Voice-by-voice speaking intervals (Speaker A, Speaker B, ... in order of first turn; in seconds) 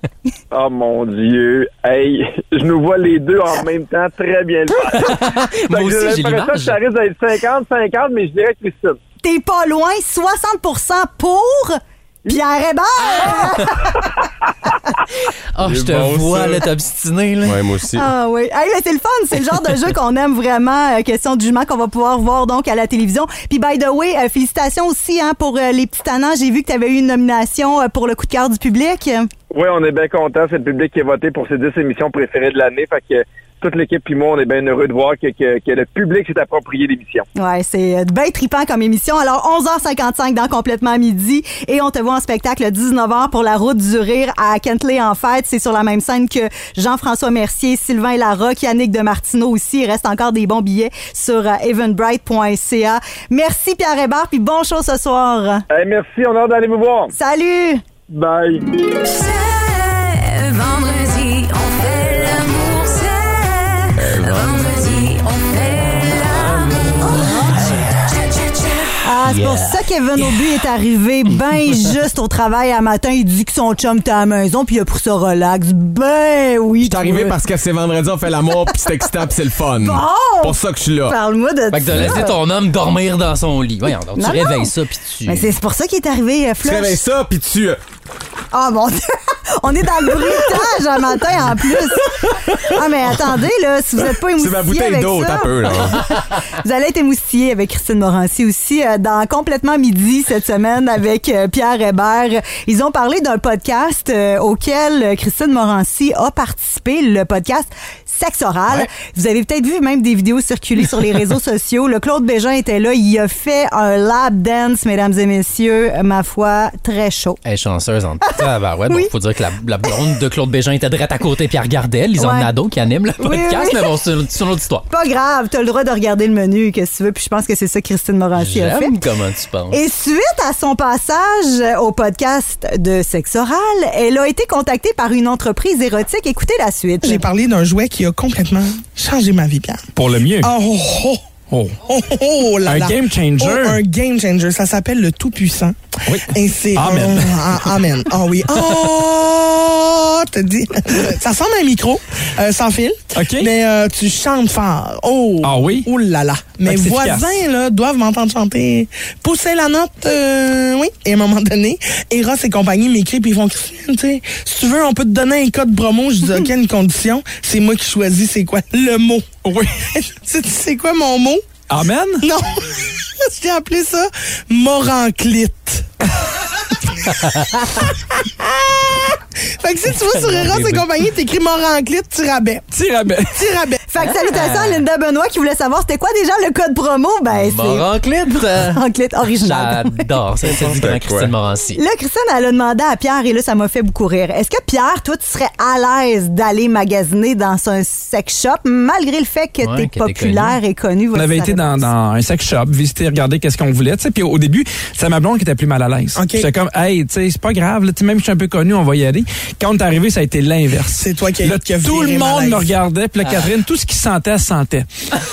Speaker A: 0.5-9.0, 29.5-37.3, 55.7-57.1, 58.1-58.6
Speaker B: 4.8-6.8, 13.1-13.8, 15.5-17.6, 69.3-70.3, 81.7-85.5, 117.4-124.9, 128.4-129.8, 180.1-180.8, 184.0-184.8, 187.3-188.8, 189.4-191.8, 199.6-200.6
Speaker C: 9.2-14.2, 17.9-29.3, 37.4-55.6, 57.1-57.8, 69.0-77.3, 79.8-82.4, 84.2-84.7, 85.2-87.0, 88.5-117.4, 122.2-122.5, 123.2-123.9, 124.9-128.9, 129.7-137.2, 183.9-187.9, 188.4-190.0, 191.8-201.9
Speaker D: 15.6-16.7, 17.4-18.1, 64.0-64.7, 76.8-81.2, 81.9-82.3, 86.6-87.8, 94.2-96.0, 190.4-191.3
Speaker E: 59.0-68.9
Speaker F: 137.0-139.8, 140.4-141.2, 141.8-169.3, 169.8-171.4, 172.2-175.9, 177.8-182.7, 183.3-183.8, 206.1-206.5, 210.9-212.7
Speaker G: 139.9-140.5, 141.5-141.8, 142.7-143.8, 146.1-147.8, 148.5-148.8, 153.2-153.5, 155.4-155.9, 156.6-157.3, 169.4-169.8, 171.7-172.2, 182.7-183.4, 201.1-214.9